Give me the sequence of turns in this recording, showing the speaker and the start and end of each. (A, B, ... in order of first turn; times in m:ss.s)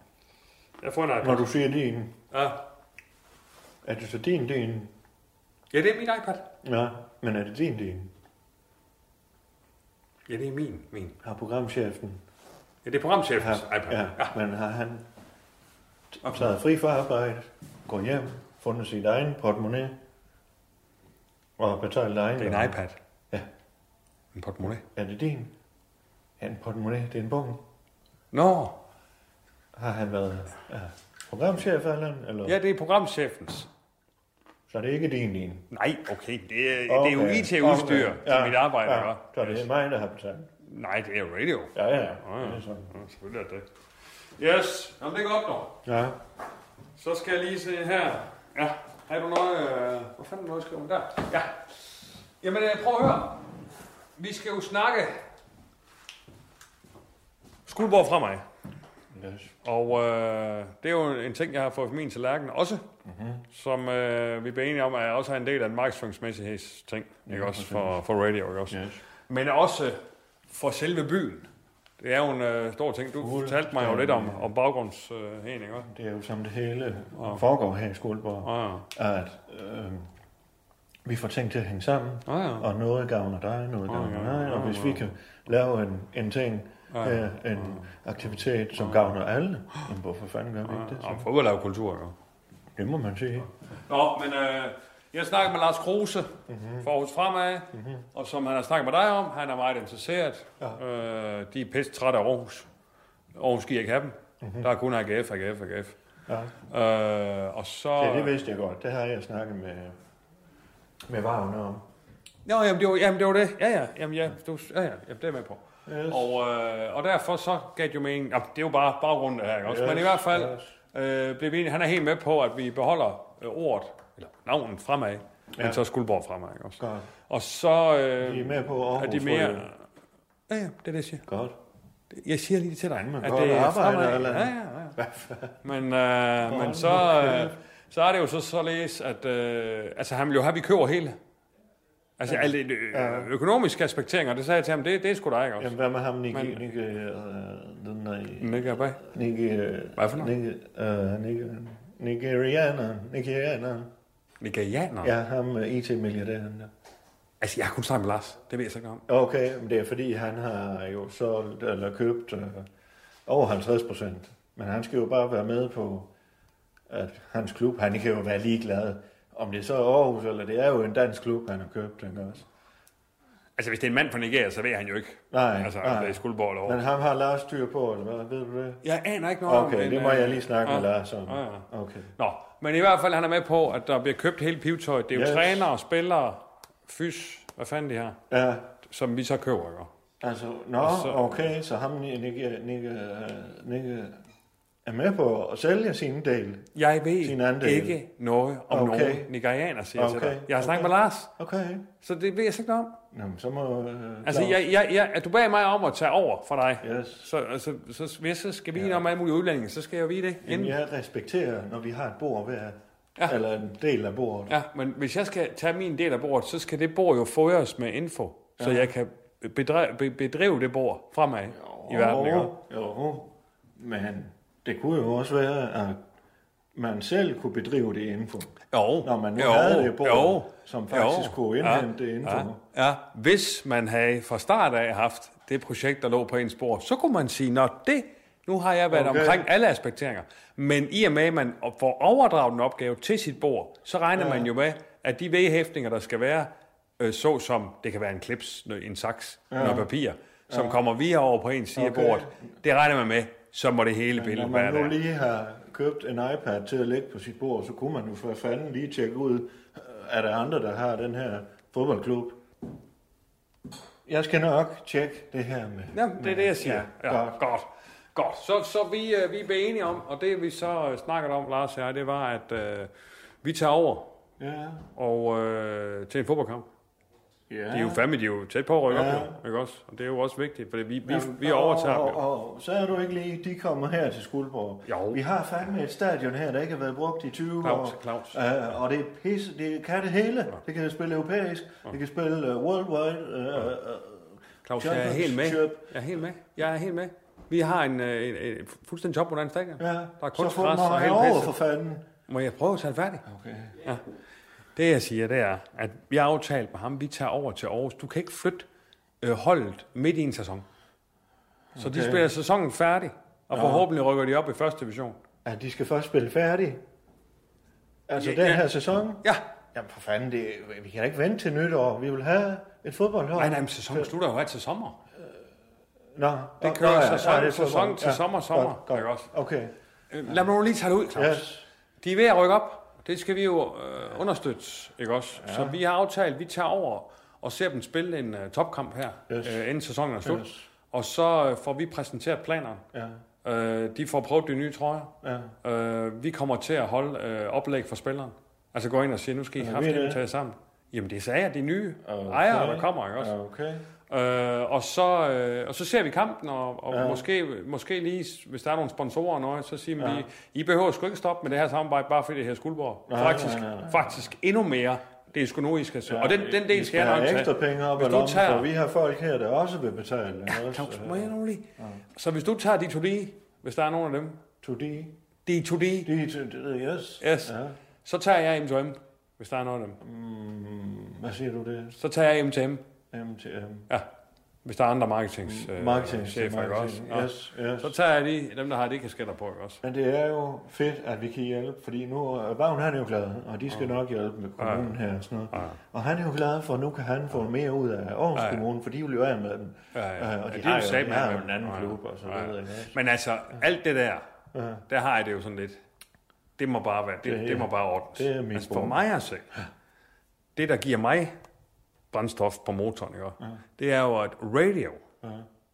0:00.8-0:01.5 A
0:01.2-0:02.1 B
0:02.3-0:02.6 A
0:03.8-0:04.9 B
0:05.7-0:06.5 A
0:06.6-0:08.1 B
0:10.3-0:11.1 A
0:11.2-0:12.2 B
0:12.8-0:14.3 A
0:13.4-0:15.1 B
0:16.1-0:20.0 B
0:16.2-0:16.5 A
0:21.6-0:22.8 B
0:22.4-0:23.0 A
0:24.3-0:24.8 A
0:24.9-0:25.5 B
0:26.4-0:27.6 B
0:28.3-0:28.8 A
0:29.8-0:32.6 B
0:32.4-0:33.7 A
0:34.7-0:35.6 B
0:35.7-0:39.6 A
0:36.9-0:40.5 B
0:40.6-0:43.6 A
0:41.8-0:42.9 B
0:44.4-0:45.8 A
0:45.8-0:46.2 B
0:47.0-0:51.8 A
0:52.4-0:53.4 A
0:54.2-0:55.2 A
0:57.7-0:58.4 A
0:59.1-0:59.5 B
0:59.6-1:02.8 A
1:03.0-1:03.4 B
1:03.5-1:10.0 A
1:07.3-1:08.0 B
1:08.7-1:09.0 B
1:10.5-1:11.5 A
1:12.0-1:15.9 A
1:13.2-1:14.5 B
1:15.9-1:20.1 B
1:17.2-1:17.4 A
1:18.4-1:18.9 A
1:21.0-1:31.3 B
1:22.3-1:22.7 A
1:23.9-1:25.0 A
1:26.9-1:27.8 A
1:28.8-1:29.1 A
1:30.7-1:32.1 A
1:32.8-1:33.5 B
1:33.9-1:42.7 A
1:36.5-1:36.9 B
1:37.7-1:38.1 B
1:43.4-1:46.0 A
1:44.4-1:44.7 B
1:46.3-1:46.6 B
1:46.7-1:48.3 A
1:48.0-1:50.0 B
1:51.1-1:51.8 B
1:52.4-2:09.8 A
1:55.9-1:56.4 B
1:59.6-2:00.7 B
2:05.6-2:05.8 B
2:06.8-2:07.1 B
2:08.2-2:09.7 B
2:10.5-2:11.2 A
2:11.3-2:11.6 B
2:12.1-2:15.0 A
2:13.0-2:15.6 B
2:15.6-2:21.2 A
2:16.4-2:17.6 B
2:22.2-2:25.7 A
2:22.3-2:23.3 B
2:25.6-2:33.9 B
2:26.3-2:26.6 A
2:28.4-2:29.0 A
2:30.0-2:30.3 A
2:34.4-2:35.1 A
2:35.0-2:36.7 B
2:37.4-2:39.0 A
2:39.1-2:42.7 B
2:43.3-2:46.1 B
2:46.9-2:52.4 B
2:53.6-2:56.8 A
2:55.3-2:58.8 B
2:58.8-3:01.7 A
2:59.4-3:02.1 B
3:02.2-3:08.2 A
3:05.1-3:05.7 B
3:08.3-3:08.7 B
3:08.8-3:09.9 A
3:10.2-3:14.2 B
3:10.8-3:11.4 A
3:14.8-3:18.0 B
3:16.8-3:21.3 A
3:18.7-3:19.3 B
3:20.0-3:21.9 B
3:22.0-3:23.0 A
3:23.1-3:24.6 B
3:24.2-3:30.8 A
3:26.8-3:27.3 B
3:28.7-3:29.1 B
3:30.4-3:34.5 B
3:34.5-3:42.6 A
3:38.6-3:38.9 B
3:41.5-3:46.0 B
3:46.8-3:52.6 B
3:48.7-4:15.0 A
3:58.9-3:59.5 B
4:04.1-4:04.5 B
4:09.5-4:09.9 B
4:10.5-4:10.8 B
4:11.8-4:12.3 B
4:14.1-4:22.4 B
4:24.1-4:27.4 B
4:25.9-4:32.9 A
4:33.4-4:34.1 A
4:34.4-4:34.9 B
4:35.0-4:36.6 A
4:37.5-4:38.0 B
4:37.7-4:42.2 A
4:38.9-4:39.4 B
4:41.0-4:55.9 B
4:44.9-4:45.2 A
4:47.6-4:48.4 A
4:54.6-5:01.6 A
4:59.8-5:02.1 B
5:02.3-5:03.2 A
5:03.3-5:03.8 B
5:04.8-5:08.6 A
5:09.2-5:10.6 A
5:11.8-5:12.3 B
5:11.8-5:15.2 A
5:13.5-5:13.9 B
5:15.4-5:16.8 B
5:18.1-5:24.1 B
5:18.2-5:18.7 A
5:23.4-5:25.0 A
5:26.1-5:29.7 B
5:26.6-5:29.3 A
5:30.1-5:31.5 A
5:31.1-5:31.6 B
5:32.0-5:42.8 A
5:35.4-5:35.8 B
5:39.3-5:39.6 B
5:40.2-5:40.6 B
5:42.9-5:43.2 B
5:43.4-5:53.3 A
5:45.2-5:45.5 B
5:49.6-5:50.2 B
5:52.0-5:53.8 B
5:54.1-6:08.7 A
5:56.9-5:57.2 B
6:00.0-6:00.3 B
6:03.1-6:04.3 B
6:06.1-6:12.0 B
6:10.5-6:11.6 A
6:12.2-6:14.4 A
6:14.6-6:15.1 B
6:15.5-6:16.1 A
6:16.0-6:17.8 B
6:17.2-6:17.5 A
6:18.0-6:20.0 A
6:20.0-6:22.0 B
6:22.0-6:22.8 A
6:23.1-6:23.9 B
6:24.6-6:29.8 A
6:25.4-6:27.9 B
6:29.8-6:43.0 B
6:34.6-6:34.9 A
6:35.5-6:35.8 A
6:38.4-6:38.6 A
6:39.9-6:44.2 A
6:44.5-6:44.8 B
6:44.9-6:45.8 A
6:46.6-6:49.5 A
6:47.2-6:49.0 B
6:50.6-6:51.3 A
6:52.1-6:55.0 A
6:55.2-6:55.5 B